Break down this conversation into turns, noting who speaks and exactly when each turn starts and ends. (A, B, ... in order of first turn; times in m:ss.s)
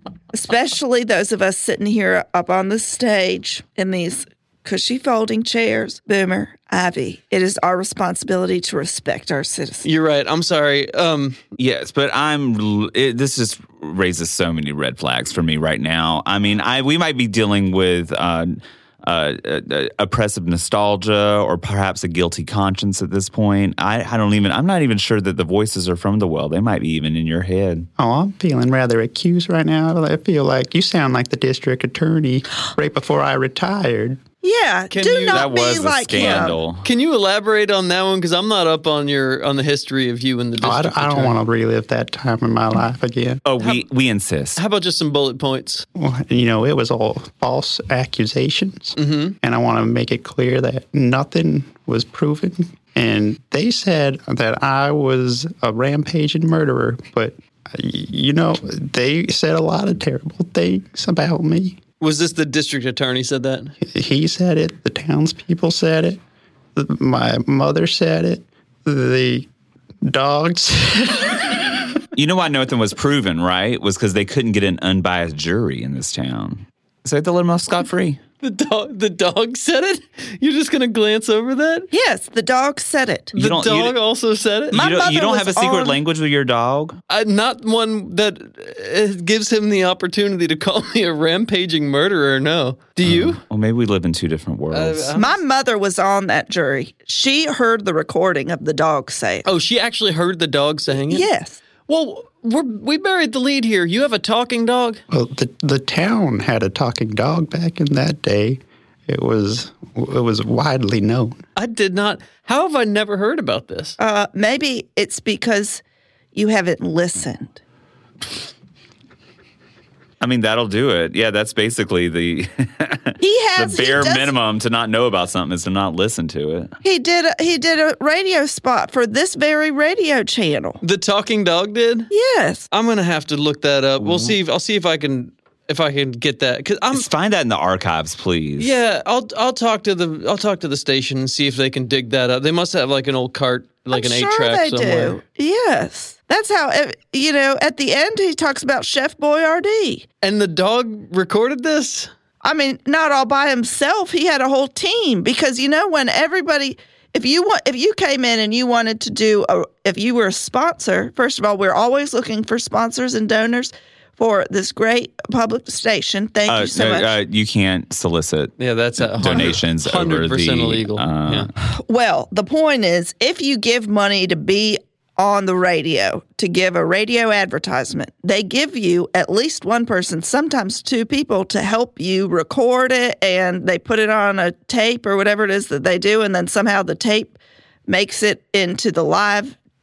0:00.3-0:09.8 A
0:09.8-0:11.4 B
0:11.6-0:27.9 C
0:28.0-0:34.2 D
0:34.4-0:36.6 A
0:34.9-0:35.5 B
0:35.3-0:36.8 C
0:36.2-0:41.4 B
0:40.6-0:43.4 D
0:43.4-0:44.6 C
0:43.6-0:43.8 B
0:44.6-0:45.8 B
0:46.0-1:01.8 D
0:49.0-0:49.4 B
1:02.0-1:03.7 B
1:03.8-1:06.2 D
1:06.8-1:09.5 D
1:10.0-1:11.8 D
1:12.2-1:18.2 C
1:18.4-1:21.9 B
1:21.9-1:23.3 A
1:23.3-1:24.8 B
1:23.3-1:24.0 C
1:24.7-1:27.0 C
1:24.7-1:26.0 A
1:27.1-1:33.4 B
1:33.0-1:35.1 C
1:34.7-1:35.4 B
1:35.1-1:39.4 A
1:39.4-1:41.3 B
1:41.1-1:41.6 A
1:41.9-1:45.0 B
1:45.1-1:51.4 D
1:51.6-1:54.0 B
1:54.0-1:55.8 A
1:56.3-1:57.6 A
2:00.2-2:06.7 C
2:03.2-2:04.3 A
2:06.8-2:10.8 A
2:10.8-2:12.1 B
2:12.1-2:12.7 A
2:12.7-2:17.1 B
2:14.0-2:14.4 C
2:16.9-2:18.7 C
2:18.6-2:25.2 B
2:23.9-2:30.0 A
2:30.2-2:32.1 B
2:32.4-2:47.1 A
2:46.5-2:51.5 C
2:48.6-2:51.5 B
2:51.6-3:07.4 A
3:07.9-3:09.6 A